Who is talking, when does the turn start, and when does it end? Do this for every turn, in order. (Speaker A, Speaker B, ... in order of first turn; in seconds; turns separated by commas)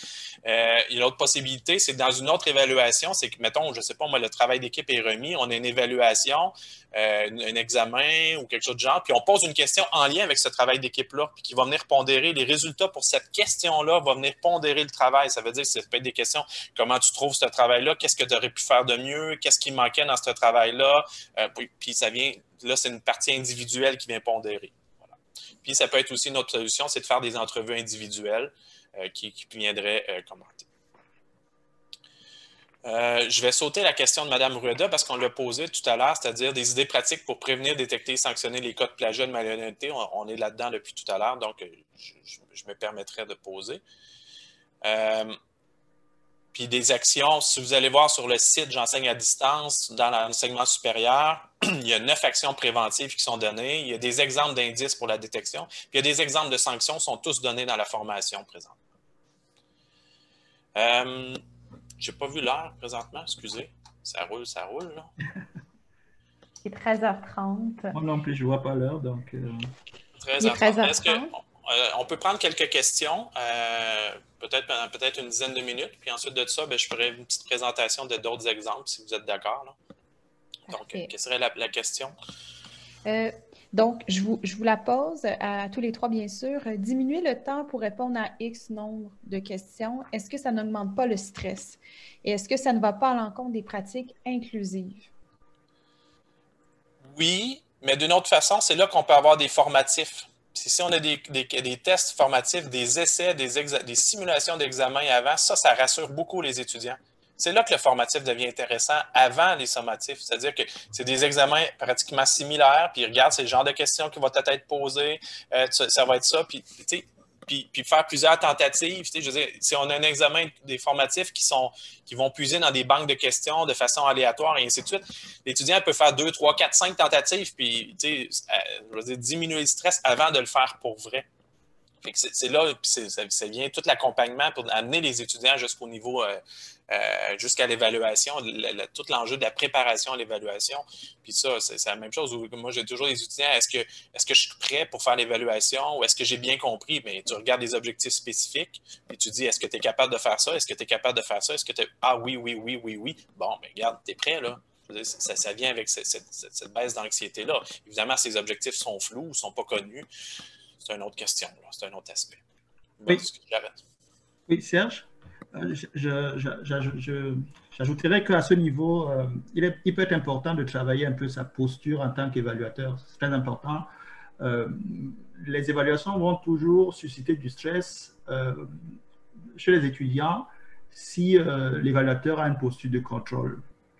Speaker A: 0.5-24.8, Speaker A: 25.6-30.7, Speaker A: 32.9-43.8, Speaker A: 44.8-45.4, Speaker A: 46.5-58.8, Speaker A: 60.8-61.4, Speaker A: 62.0-65.1, Speaker B: 66.6-68.0, Speaker C: 67.9-69.7, Speaker A: 70.2-79.8, Speaker B: 70.4-71.3, Speaker B: 80.7-81.1, Speaker A: 80.7-82.2, Speaker B: 83.1-95.1, Speaker A: 97.1-131.3, Speaker A: 132.0-160.1, Speaker A: 160.8-162.4, Speaker A: 163.0-163.8, Speaker C: 164.5-173.9, Speaker C: 174.4-178.8, Speaker C: 179.6-183.6